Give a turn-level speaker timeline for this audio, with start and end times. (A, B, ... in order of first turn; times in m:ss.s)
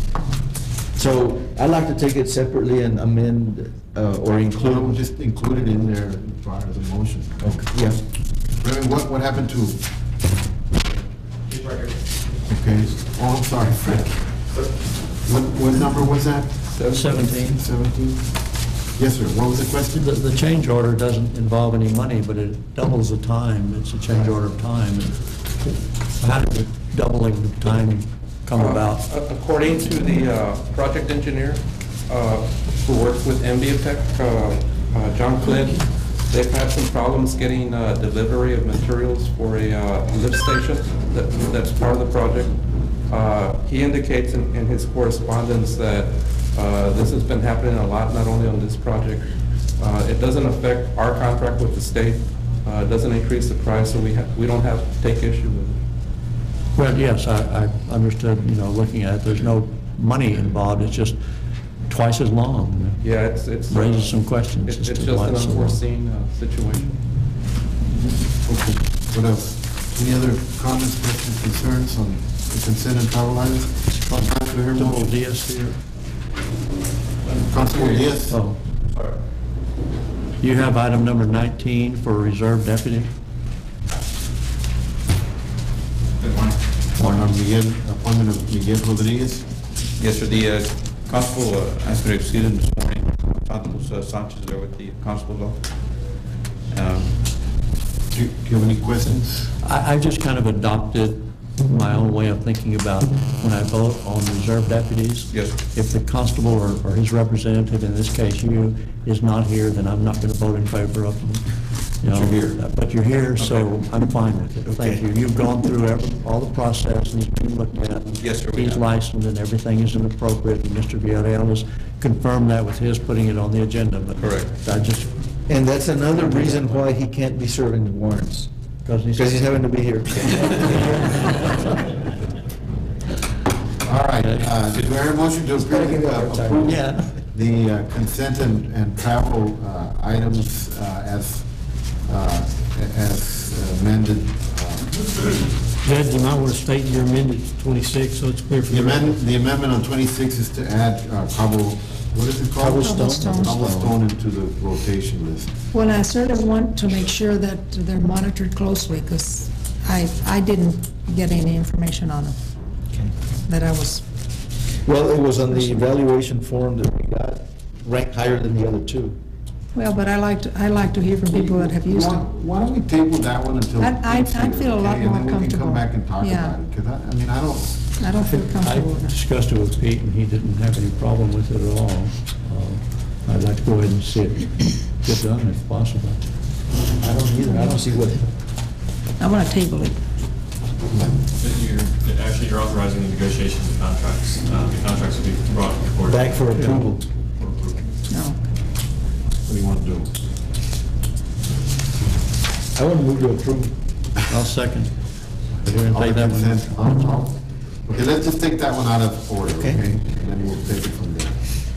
0:01.0-0:05.0 A
0:04.6-0:07.7 B
0:07.4-0:08.0 A
0:08.6-0:09.8 B
0:12.5-0:14.5 B
0:15.2-0:18.3 B
0:16.7-0:17.2 C
0:16.9-0:17.6 D
0:19.0-0:20.1 B
0:20.0-0:25.2 D
0:26.2-0:29.0 D
0:28.6-0:42.6 C
0:43.1-0:55.8 C
0:56.8-1:01.2 D
1:01.9-1:03.0 D
1:03.0-1:07.0 C
1:03.7-1:05.8 D
1:08.4-1:15.2 B
1:13.9-1:15.8 D
1:17.5-1:18.4 B
1:18.3-1:18.6 D
1:20.4-1:23.1 D
1:27.0-1:29.5 B
1:30.0-1:35.6 E
1:36.7-1:37.2 E
1:38.1-1:39.5 B
1:39.6-1:51.4 D
1:52.0-2:05.2 D
1:52.2-1:52.6 E
1:58.2-1:58.8 E
2:04.2-2:04.5 E
2:05.5-2:08.5 A
2:06.2-2:06.8 D
2:08.8-2:09.6 D
2:09.2-2:11.0 A
2:13.8-2:21.5 B
2:14.2-2:14.5 D
2:15.6-2:16.7 A
2:16.6-2:17.1 D
2:22.0-2:25.0 B
2:25.8-2:29.2 F
2:28.7-2:35.5 B
2:32.6-2:33.9 D
2:32.7-2:33.8 G
2:35.7-2:42.4 G
2:43.5-2:44.0 G
2:44.8-2:49.2 A
2:49.8-2:52.3 G
2:51.3-2:57.8 B
2:53.8-2:56.6 G
2:58.0-2:59.2 G
2:58.2-3:06.2 D
3:07.0-3:08.3 A
3:07.5-3:07.8 G
3:09.2-3:10.0 G
3:11.3-3:17.8 H
3:16.1-3:17.0 A
3:16.5-3:16.8 D
3:18.1-3:18.4 G
3:19.4-3:20.1 B
3:22.7-3:23.8 A
3:24.3-3:24.9 D
3:25.6-3:26.6 D
3:25.8-3:31.5 B
3:29.6-3:29.8 A